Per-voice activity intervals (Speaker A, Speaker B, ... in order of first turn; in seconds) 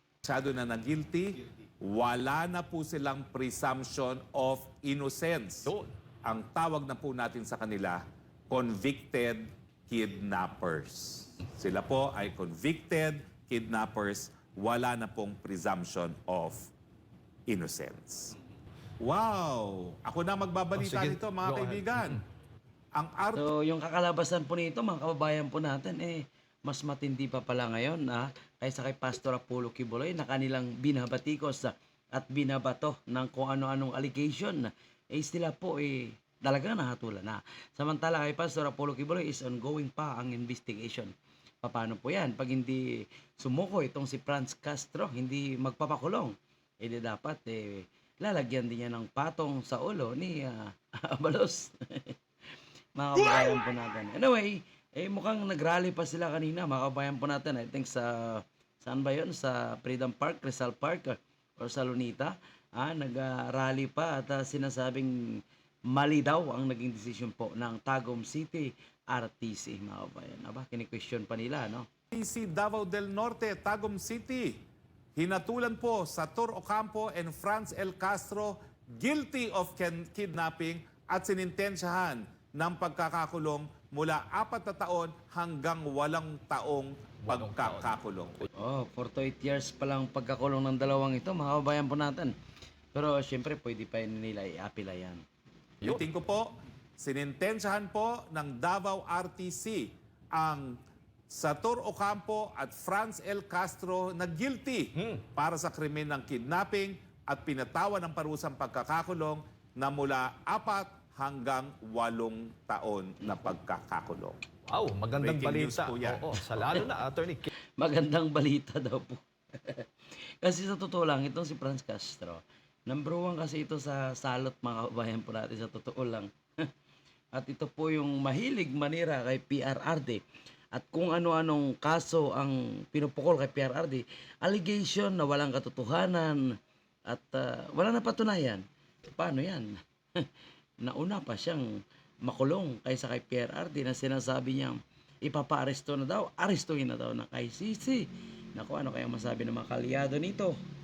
Speaker A: 0.2-5.7, 6.2-16.6, 17.5-18.3, 19.0-22.2, 22.9-23.5, 72.1-74.6, 75.2-88.4, 95.8-100.8, 101.3-114.4, 115.2-116.4
Speaker B: 20.8-22.2, 87.2-87.9, 105.0-105.2, 114.7-117.5
Speaker C: 23.4-52.1, 53.0-71.9, 88.5-92.3, 92.9-95.2, 117.8-126.7, 127.3-136.5, 137.1-140.3, 140.8-141.7, 142.2-150.6